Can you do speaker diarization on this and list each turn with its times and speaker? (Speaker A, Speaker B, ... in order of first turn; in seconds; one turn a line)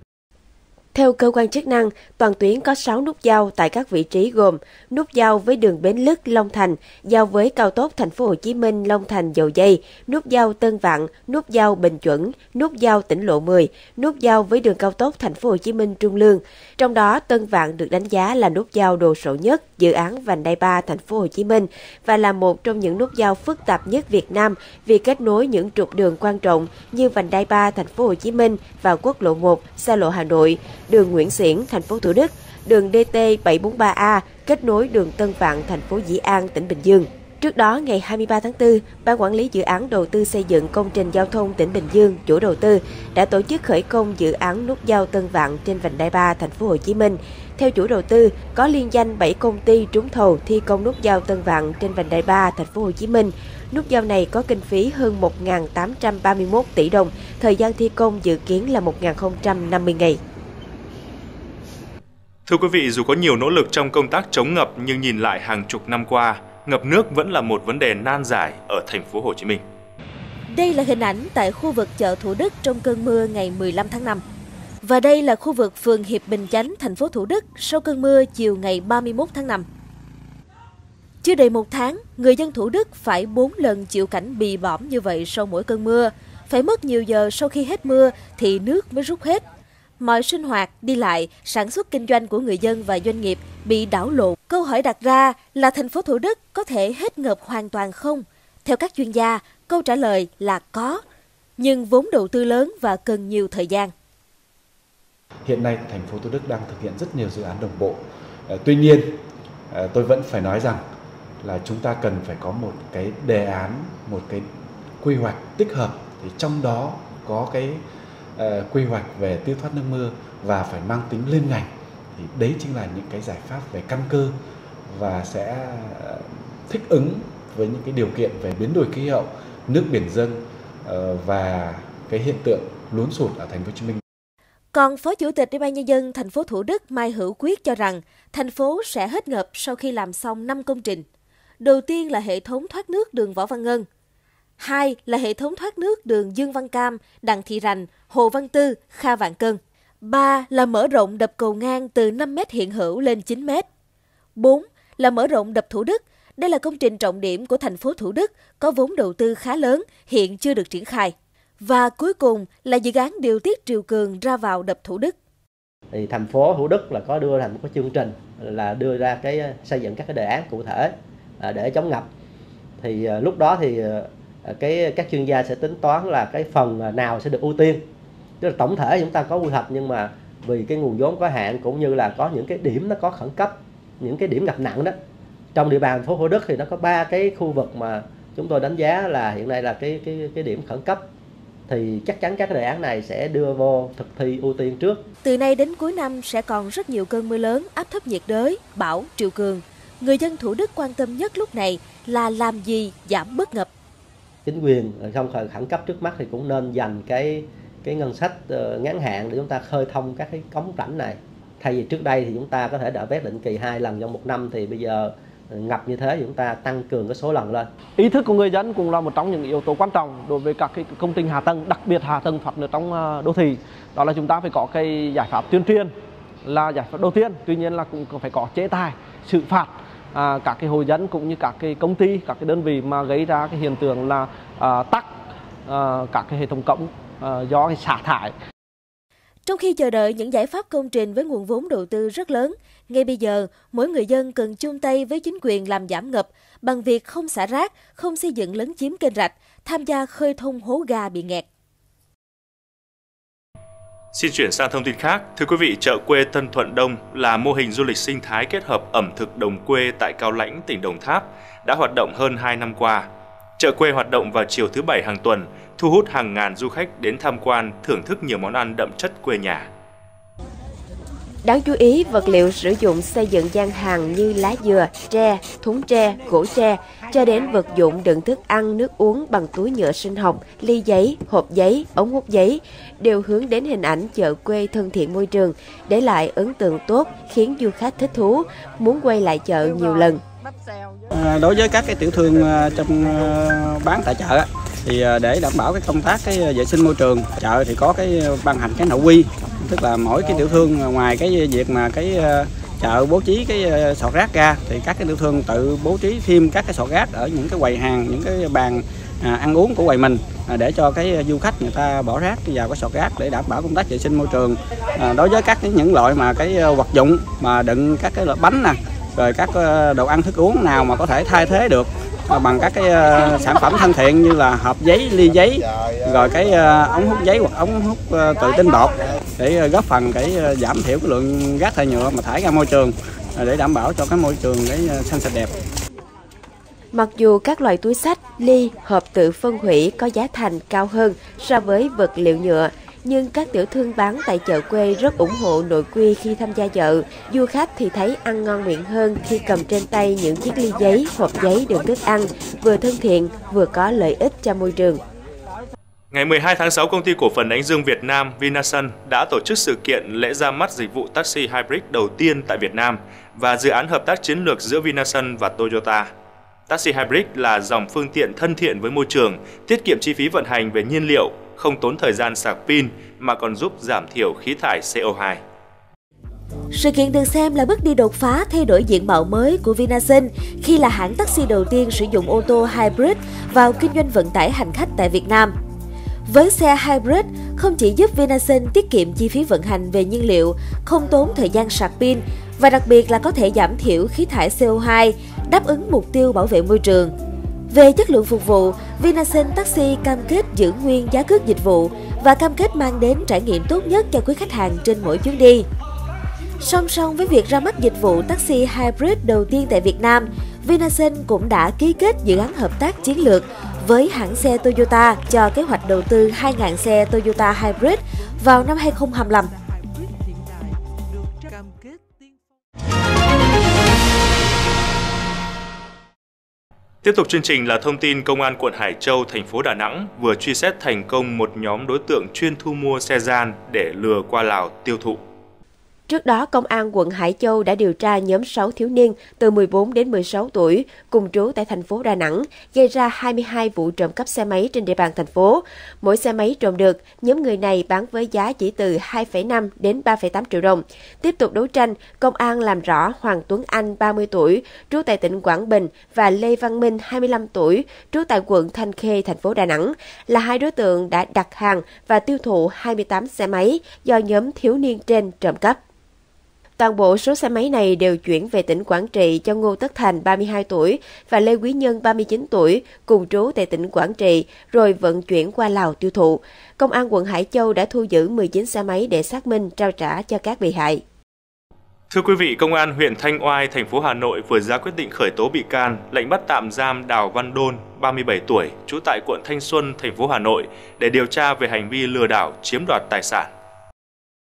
Speaker A: 0.9-60.2
Speaker B: 62.5-69.6
Speaker C: 70.5-74.2
Speaker C: 74.8-79.7
Speaker C: 81.2-89.4
Speaker C: 90.0-101.0
Speaker C: 101.6-103.9
Speaker D: 105.5-109.2
Speaker D: 109.7-110.8
Speaker D: 111.4-114.5
Speaker D: 115.0-117.8
Speaker D: 118.4-124.4
Speaker D: 124.9-134.0
Speaker C: 134.7-141.1
Speaker C: 141.6-143.9
Speaker C: 144.6-153.7
Speaker C: 154.4-165.2
Speaker E: 165.9-172.1
Speaker E: 172.8-177.8
Speaker E: 178.4-184.9
Speaker E: 185.6-191.0
Speaker E: 191.7-195.0
Speaker C: 195.2-203.7
Speaker E: 204.5-217.7
Speaker F: 218.0-225.9
Speaker F: 226.4-235.1
Speaker F: 235.7-238.3
Speaker C: 239.5-251.4
Speaker B: 254.1-263.1
Speaker B: 263.6-269.7
Speaker A: 271.4-290.2
Speaker G: 291.1-335.5
Speaker A: 336.9-355.0
Speaker B: 356.1-366.1
Speaker B: 366.7-375.4
Speaker C: 376.7-385.5
Speaker C: 386.3-397.1
Speaker C: 397.7-405.7
Speaker C: 406.6-419.5
Speaker B: 427.0-435.2
Speaker A: 436.1-465.8
Speaker A: 466.8-481.0
Speaker B: 482.1-493.5